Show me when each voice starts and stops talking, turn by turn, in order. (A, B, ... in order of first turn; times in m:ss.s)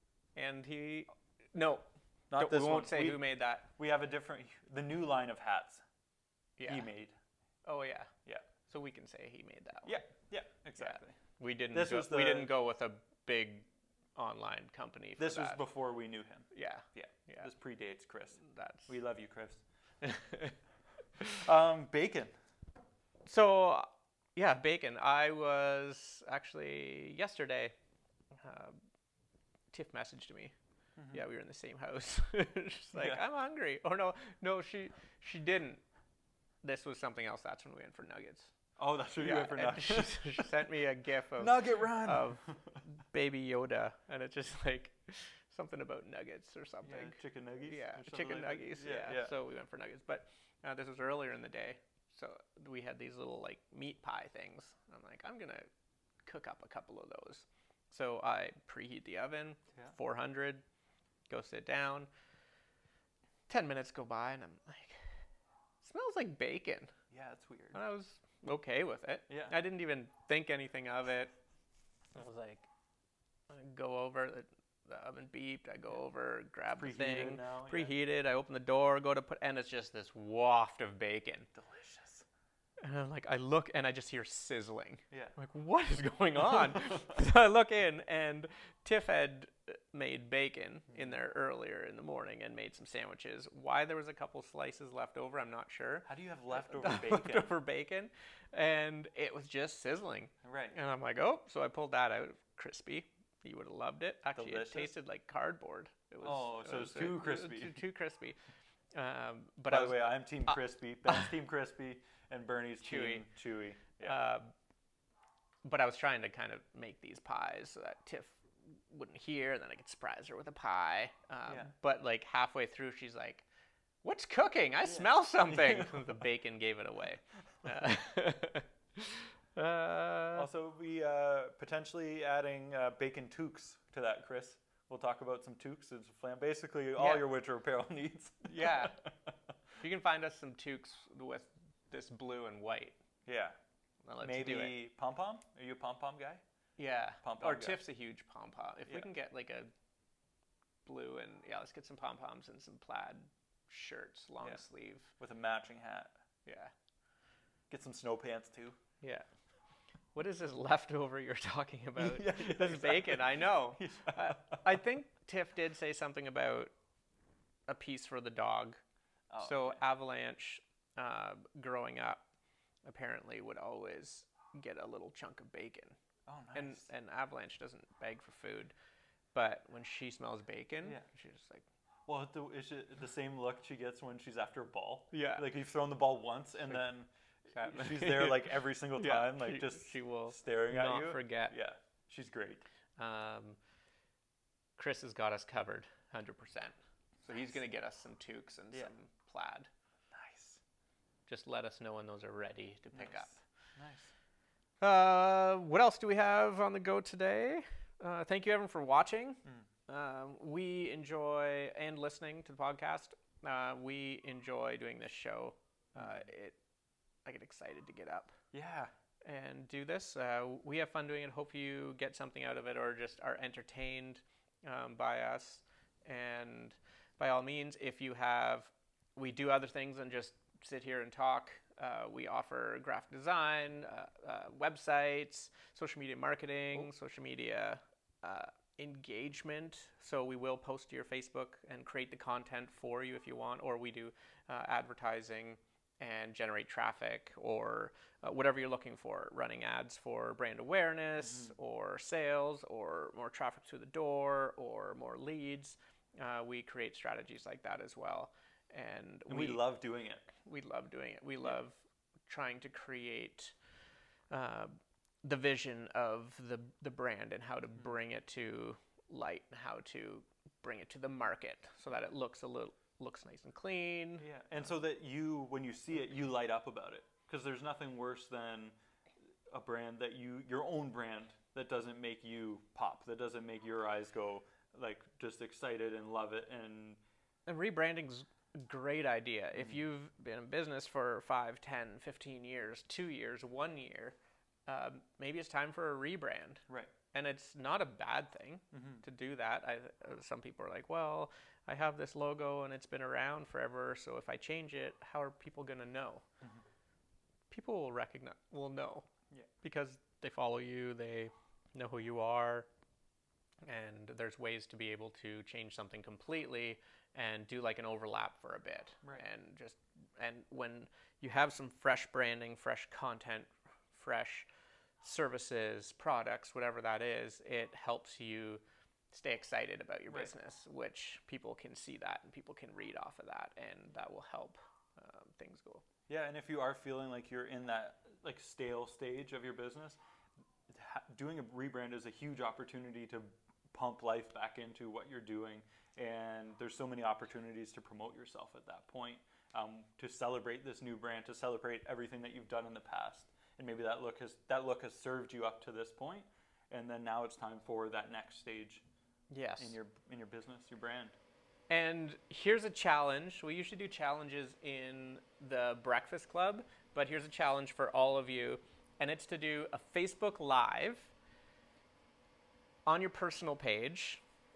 0:00.3-0:03.7 A
0:02.3-0:05.8 B
0:06.6-0:06.9 A
0:06.6-0:07.2 B
0:07.6-0:08.1 A
0:08.7-0:10.0 A
0:09.8-0:11.2 B
0:10.8-0:15.6 A
0:11.7-0:12.5 B
0:15.2-0:19.6 B
0:16.5-0:17.5 A
0:18.4-0:18.9 A
0:20.0-0:20.6 A
0:21.2-0:22.3 B
0:23.2-0:27.7 A
0:28.3-0:28.8 A
0:29.7-0:30.5 A
0:31.0-0:31.2 B
0:31.1-0:35.8 A
0:32.9-0:33.2 B
0:36.6-0:38.5 A
0:38.8-0:40.6 B
0:39.2-0:55.6 A
0:41.4-0:42.8 B
0:46.8-0:49.3 B
0:56.2-1:00.6 A
1:01.3-1:02.1 A
1:03.5-1:05.0 A
1:05.8-1:06.9 A
1:07.1-1:07.8 B
1:07.7-1:11.3 A
1:09.3-1:09.6 B
1:12.1-1:12.7 A
1:13.5-1:21.5 A
1:16.7-1:17.9 B
1:21.5-1:22.2 B
1:22.8-1:48.4 A
1:36.0-1:37.5 B
1:40.4-1:40.7 B
1:44.4-1:44.9 B
1:46.2-1:47.8 B
1:48.9-1:51.3 A
1:49.7-1:54.2 B
1:52.8-1:53.2 A
1:54.0-1:54.5 A
1:55.6-2:03.4 A
2:04.0-2:10.5 A
2:04.8-2:06.1 B
2:10.4-2:19.3 B
2:17.0-2:17.2 A
2:18.4-2:19.0 A
2:19.8-2:23.0 A
2:23.2-2:23.6 B
2:24.0-2:24.8 A
2:24.2-2:26.4 B
2:26.8-2:29.7 A
2:27.2-2:27.8 B
2:30.8-2:35.1 A
2:35.2-2:36.1 B
2:36.4-2:36.7 A
2:37.7-2:38.8 B
2:40.1-2:46.7 A
2:42.0-2:44.8 B
2:47.7-2:48.8 A
2:49.3-2:49.8 B
2:49.4-2:52.3 A
2:52.8-2:56.0 A
2:56.2-2:56.9 B
2:56.5-2:58.7 A
2:59.3-3:01.6 A
3:02.1-3:12.6 B
3:05.1-3:05.4 A
3:07.5-3:11.6 A
3:13.0-3:13.6 A
3:14.8-3:19.7 A
3:20.1-3:20.6 B
3:21.3-3:23.3 A
3:22.9-3:24.1 B
3:24.8-3:36.6 A
3:36.0-3:36.2 B
3:37.2-3:38.3 A
3:38.5-3:38.9 B
3:39.2-4:19.7 A
4:11.2-4:11.5 B
4:19.3-4:20.3 B
4:20.4-4:23.5 A
4:24.3-4:34.3 A
4:34.2-4:38.7 B
4:39.5-4:47.0 B
4:47.4-5:06.2 A
4:49.5-4:49.8 B
4:56.7-4:56.9 B
4:58.7-4:59.0 B
5:07.5-5:09.1 A
5:09.6-5:12.7 A
5:13.6-5:24.5 A
5:25.0-5:35.8 A
5:36.1-5:40.0 B
5:40.7-5:58.8 B
5:59.3-5:59.8 A
5:59.6-6:01.1 B
6:01.7-6:11.1 A
6:12.8-6:14.2 A